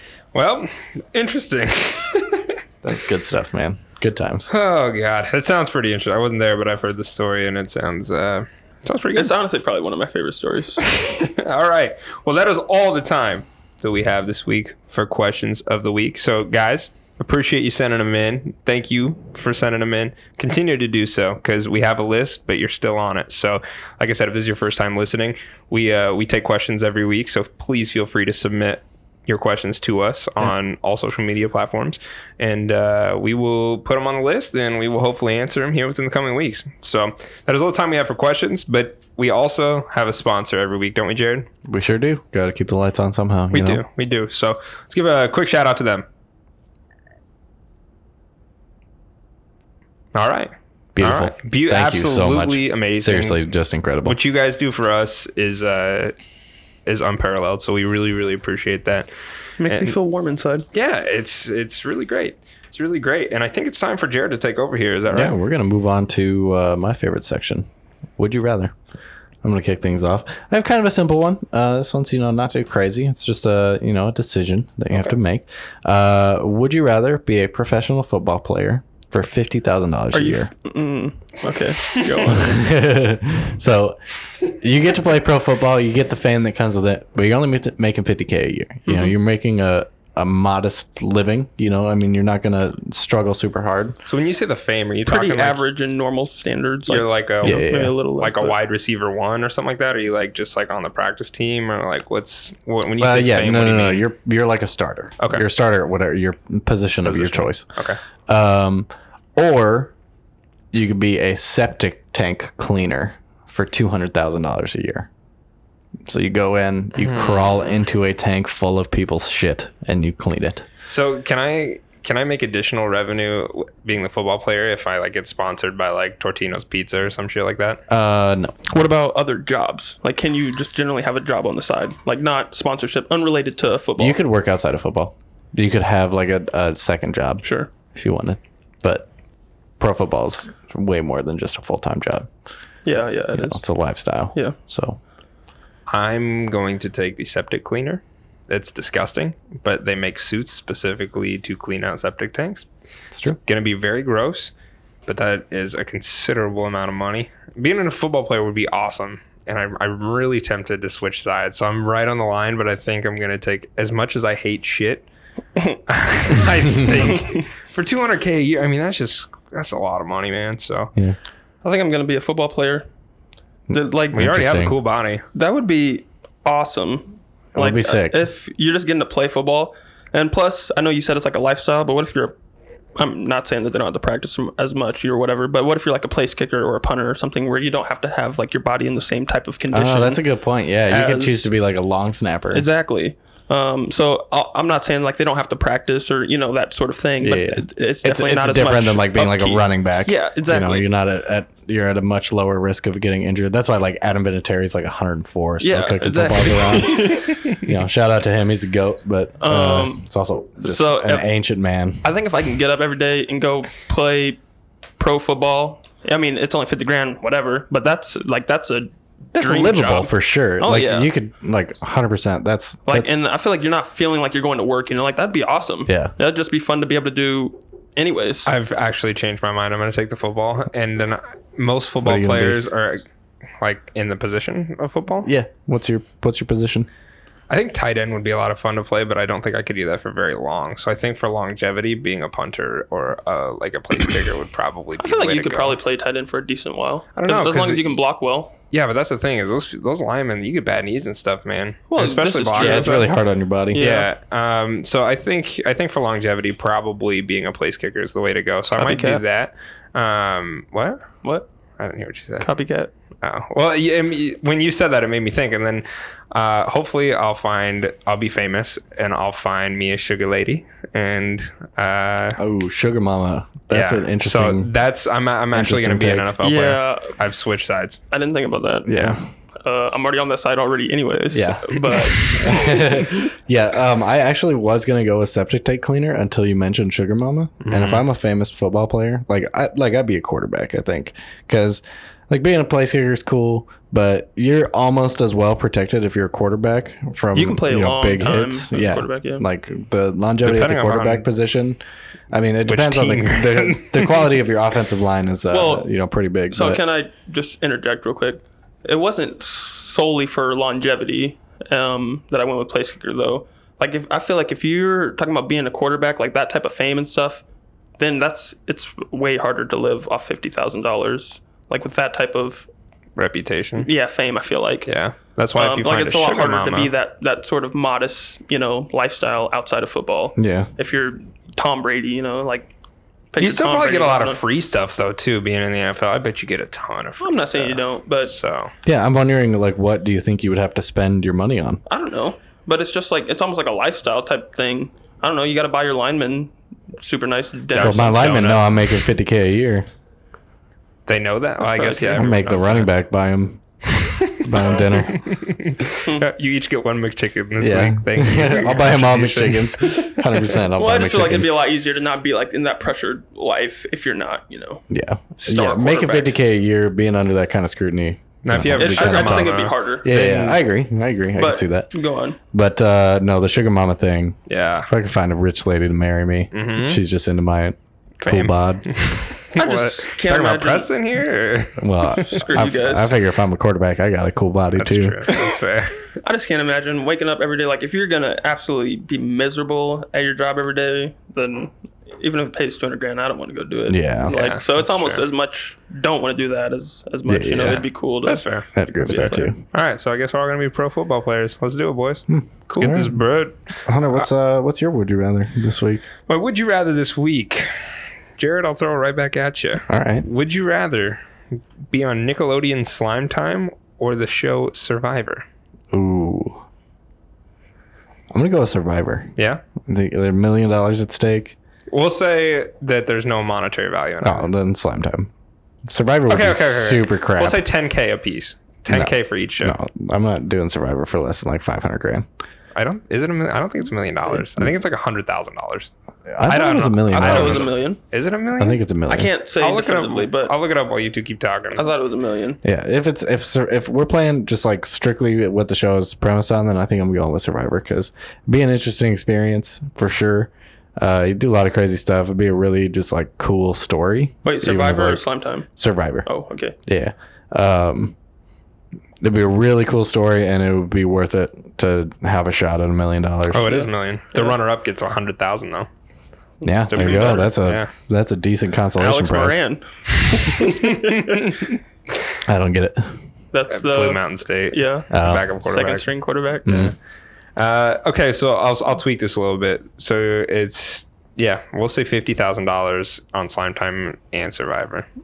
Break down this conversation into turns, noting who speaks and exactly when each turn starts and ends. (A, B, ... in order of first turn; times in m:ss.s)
0:00.3-0:02.6 A
0:02.8-0:04.5 B
0:04.5-0:09.3 A
0:09.1-0:10.8 C
0:10.9-0:41.5 A
0:41.6-0:43.8 B
0:43.5-0:46.0 A
0:50.1-0:53.4 A
0:51.0-0:54.2 B
0:54.0-0:56.1 A
0:56.8-0:59.1 A
0:59.6-1:00.6 C
0:59.7-0:59.9 A
1:00.7-1:05.4 A
1:05.1-1:08.7 B
1:09.4-1:20.5 B
1:20.1-1:22.6 C
1:22.3-1:34.0 B
1:34.0-1:35.6 A
1:35.1-1:38.6 C
1:36.9-1:44.1 A
1:37.4-1:38.0 B
1:43.0-1:47.6 B
1:45.2-1:45.4 A
1:47.0-1:48.0 A
1:48.3-1:49.9 B
1:50.7-1:55.1 B
1:56.1-2:00.6 B
1:57.0-1:57.8 A
2:00.9-2:07.8 A
2:07.9-2:08.6 B
2:08.7-2:14.2 C
2:14.0-2:19.1 B
2:17.4-2:17.7 C
2:19.8-2:22.3 B
2:22.8-2:23.6 C
2:23.4-2:25.0 B
2:25.9-2:32.7 A
2:33.1-2:33.4 B
2:33.3-2:34.5 A
2:35.1-2:45.1 A
2:45.9-2:50.9 A
2:47.1-2:47.4 C
2:51.6-2:52.9 C
2:53.7-2:54.8 B
2:53.7-2:54.2 C
2:54.1-2:55.2 A
2:55.3-3:02.4 C
2:57.5-2:58.2 B
3:03.0-3:10.2 C
3:09.7-3:12.7 B
3:10.9-3:11.5 C
3:12.5-3:20.9 C
3:17.2-3:32.1 B
3:25.6-3:27.5 C
3:29.4-3:30.0 C
3:30.6-3:31.2 C
3:32.0-3:34.4 C
3:35.0-3:41.1 C
3:39.4-3:43.2 B
3:42.8-3:48.5 C
3:45.9-3:46.1 B
3:48.4-3:53.0 A
3:52.0-3:52.6 B
3:53.6-3:55.3 A
3:55.2-3:56.9 B
3:57.5-4:05.8 A
4:05.0-4:08.5 C
4:07.1-4:08.0 A
4:08.7-4:13.1 A
4:11.9-4:13.1 C
4:12.5-4:13.9 B
4:13.7-4:14.1 C
4:13.8-4:21.1 A
4:18.8-4:19.2 C
4:21.8-4:22.5 A
4:22.4-4:22.9 C
4:23.2-4:32.4 A
4:32.4-4:34.7 B
4:33.7-4:38.0 A
4:35.5-4:36.3 B
4:36.4-4:37.2 C
4:38.1-4:43.1 C
4:38.8-4:39.2 B
4:41.3-5:01.8 B
4:47.6-4:48.0 A
4:57.3-4:59.4 C
5:00.4-5:01.3 A
5:02.3-5:06.8 B
5:02.6-5:04.2 A
5:05.5-5:05.9 C
5:06.5-5:17.4 C
5:18.0-5:22.7 C
5:23.2-5:23.9 A
5:23.8-5:24.9 C
5:24.8-5:26.9 A
5:25.6-5:32.7 C
5:30.4-5:30.7 B
5:33.3-5:34.4 C
5:33.4-5:38.7 A
5:37.2-5:38.4 C
5:38.8-5:41.8 B
5:41.9-5:48.6 C
5:47.7-5:48.8 A
5:47.8-5:49.9 B
5:51.1-5:52.9 A
5:51.6-5:52.2 C
5:52.1-5:55.2 B
5:55.0-6:00.1 A
5:57.6-6:01.5 B
6:00.7-6:04.8 C
6:04.9-6:11.9 B
6:05.4-6:06.3 C
6:08.4-6:10.6 A
6:08.8-6:10.1 C
6:11.4-6:12.4 C
6:12.5-6:18.9 B
6:14.5-6:14.9 A
6:16.5-6:17.0 A
6:18.2-6:22.2 A
6:19.6-6:20.9 C
6:21.8-6:25.2 B
6:22.2-6:23.1 C
6:24.8-6:26.1 A
6:26.2-6:39.5 C
6:33.9-6:34.4 B
6:34.3-6:35.2 A
6:37.2-6:37.9 B
6:38.2-6:44.3 A
6:38.7-6:39.6 B
6:42.3-6:43.2 B
6:43.9-6:46.0 B
6:46.3-6:47.7 A
6:48.4-6:51.2 A
6:49.9-6:50.2 B
6:51.9-6:55.4 A
6:55.9-6:56.6 B
6:58.3-6:59.3 B
6:59.4-6:59.6 A
6:59.8-7:01.6 B
7:01.9-7:04.5 A
7:04.2-7:05.3 B
7:05.8-7:07.6 B
7:06.3-7:09.8 A
7:08.9-7:12.2 B
7:12.8-7:15.9 A
7:16.3-7:17.7 B
7:16.4-7:18.8 A
7:17.1-7:18.0 C
7:18.6-7:19.3 B
7:19.1-7:20.5 C
7:19.6-7:21.9 A
7:21.8-7:22.6 C
7:22.6-7:35.2 B
7:34.4-7:35.7 C
7:35.8-7:36.3 B
7:36.2-7:36.8 C
7:36.8-7:38.1 B
7:39.2-7:43.8 B
7:43.5-7:45.9 A
7:43.7-7:44.5 C
7:46.6-7:49.6 B
7:46.9-7:47.9 A
7:47.0-7:47.4 C
7:49.0-7:51.5 C
7:50.8-7:51.7 A
7:52.4-7:53.2 B
7:53.5-7:56.9 C
7:53.7-7:56.1 A
7:55.1-7:55.5 B
7:56.6-7:56.9 B
7:57.6-8:05.1 A